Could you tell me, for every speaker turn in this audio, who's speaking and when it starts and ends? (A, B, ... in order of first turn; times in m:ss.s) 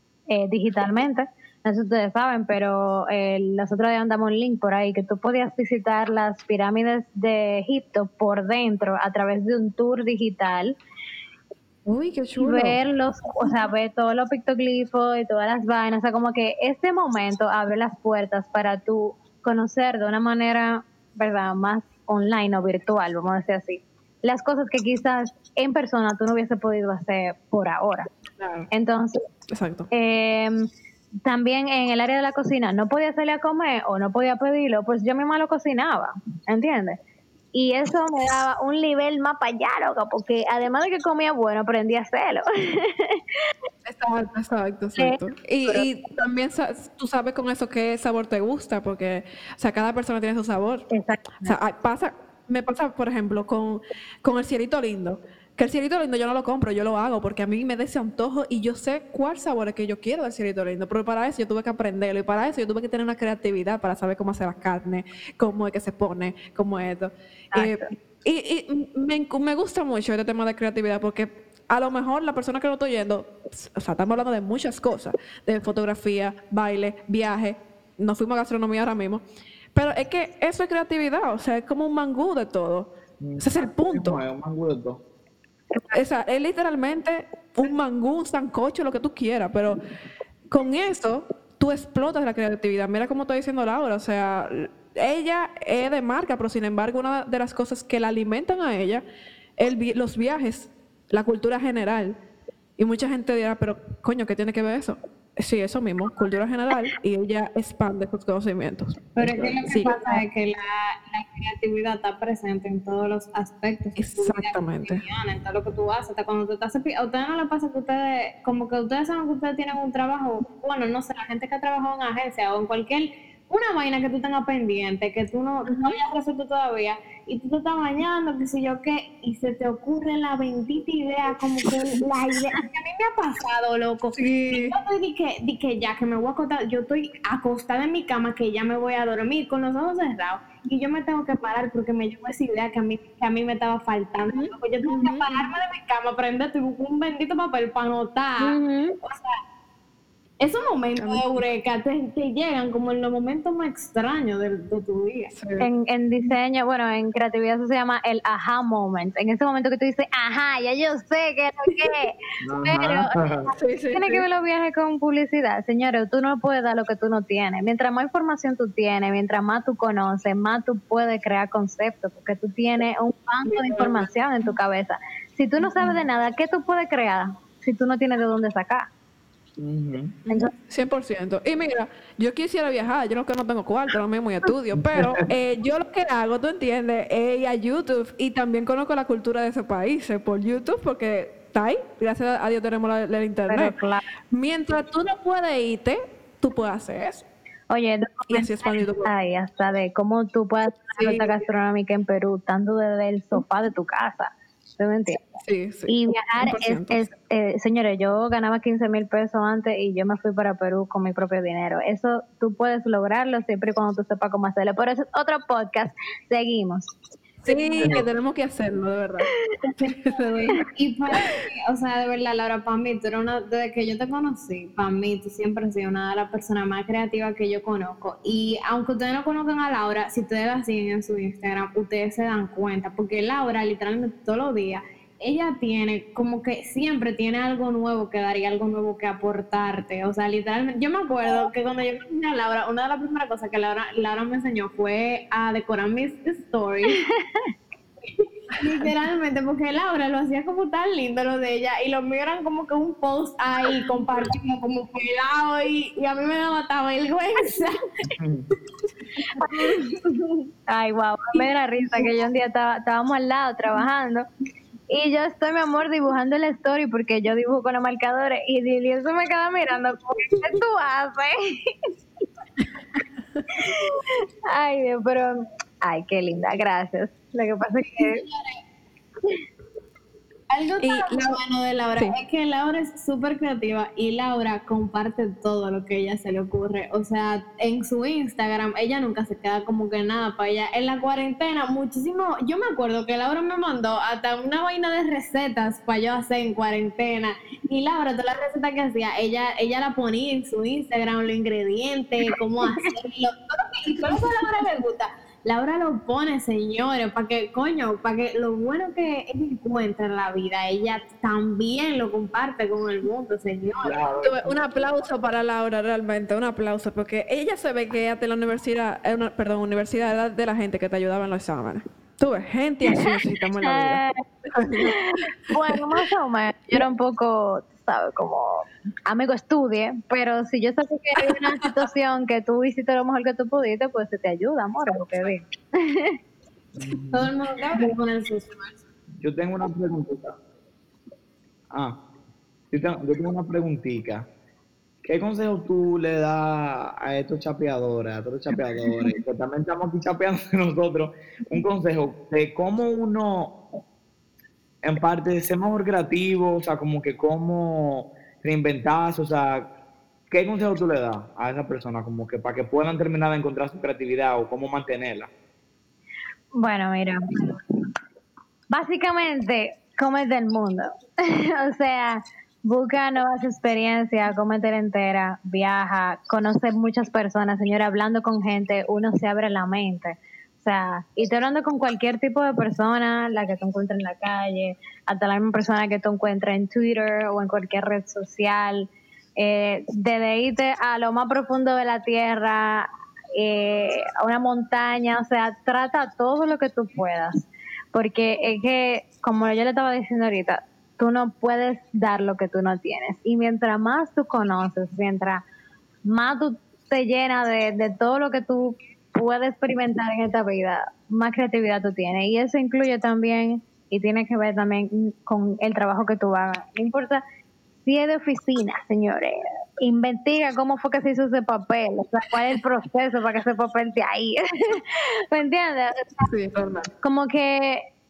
0:00.3-0:10.7 A
0:11.9-0:12.8 B
0:12.4-0:28.1 A
0:28.4-0:28.7 B
0:28.7-0:29.2 A
0:29.5-0:29.9 B
0:29.9-0:30.6 A
0:31.2-0:37.0 A
0:37.5-0:43.5 A
0:43.8-0:50.9 B
0:45.0-0:45.8 A
0:50.9-0:51.6 A
0:51.4-1:19.2 B
1:07.5-1:07.9 A
1:19.7-1:24.2 B
1:23.2-1:25.0 C
1:25.7-1:26.0 A
1:25.9-1:29.8 B
1:30.5-1:39.0 B
1:39.6-1:42.2 B
1:42.8-1:49.1 B
1:49.2-2:29.4 D
1:49.2-1:49.7 C
1:49.6-1:50.2 B
1:54.0-1:55.0 B
2:05.7-2:06.0 B
2:14.1-2:14.8 B
2:24.3-2:25.5 B
2:28.4-2:29.0 A
2:30.4-2:35.3 D
2:31.0-2:31.5 B
2:35.3-2:35.7 B
2:35.6-2:43.1 A
2:42.4-2:43.5 C
2:43.5-2:44.2 B
2:43.9-2:58.9 A
2:53.5-2:54.1 B
2:59.6-3:00.2 C
3:00.3-3:13.7 B
3:04.7-3:05.3 C
3:13.5-3:14.1 A
3:14.3-3:17.2 B
3:17.7-3:25.4 A
3:18.3-3:19.1 B
3:20.9-3:21.4 B
3:25.4-3:27.1 B
3:25.9-3:36.9 A
3:37.4-3:40.6 B
3:40.6-4:07.0 D
4:06.9-4:07.5 A
4:08.5-4:17.8 D
4:18.0-4:18.5 C
4:19.3-4:20.0 A
4:20.7-4:24.2 A
4:24.9-4:31.8 A
4:33.5-4:38.2 A
4:38.0-4:38.6 D
4:40.5-5:14.0 D
4:40.8-4:41.4 B
5:02.6-5:02.9 A
5:13.8-5:14.6 C
5:14.2-5:25.0 B
5:23.6-5:24.2 A
5:24.8-5:36.2 A
5:36.8-5:37.3 C
5:37.1-5:38.8 D
5:37.6-5:37.9 B
5:39.2-5:40.4 C
5:41.7-5:42.0 C
5:42.7-5:44.3 C
5:45.0-5:53.6 C
5:54.8-5:59.7 C
6:00.3-6:05.3 C
6:06.6-6:07.6 A
6:08.7-6:45.4 A
6:46.0-6:57.2 A
6:57.8-7:06.3 A
7:06.2-7:06.9 B
7:07.0-7:07.9 A